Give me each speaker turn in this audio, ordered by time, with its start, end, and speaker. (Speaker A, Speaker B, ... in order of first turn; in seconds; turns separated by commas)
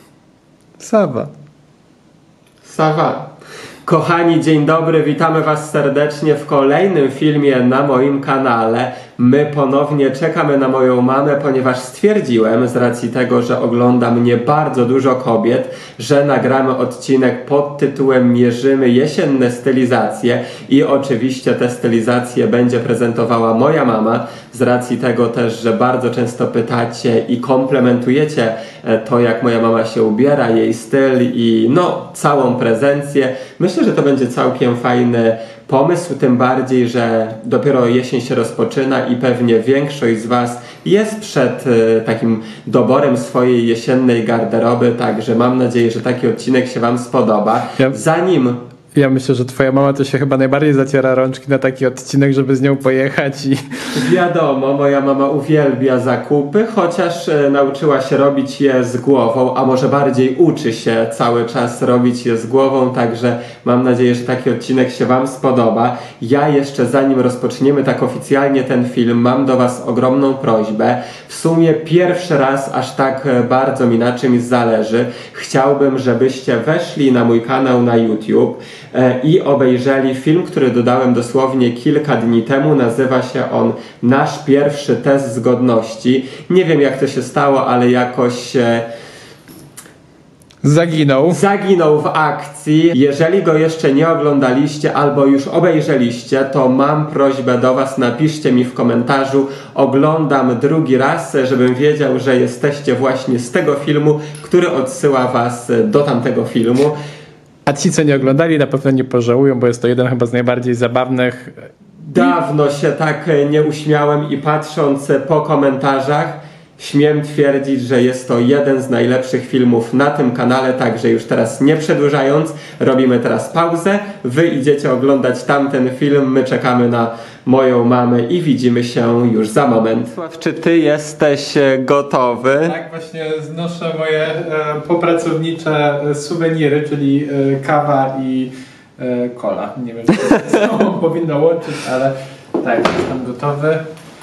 Speaker A: 0.8-1.3, Speaker B: 2.6-3.3, Speaker B: 3.8-48.6, Speaker A: 48.9-54.0, Speaker B: 54.0-88.9, Speaker A: 90.6-91.4, Speaker B: 91.3-107.0, Speaker A: 107.7-111.7, Speaker B: 112.0-132.8, Speaker A: 132.6-143.8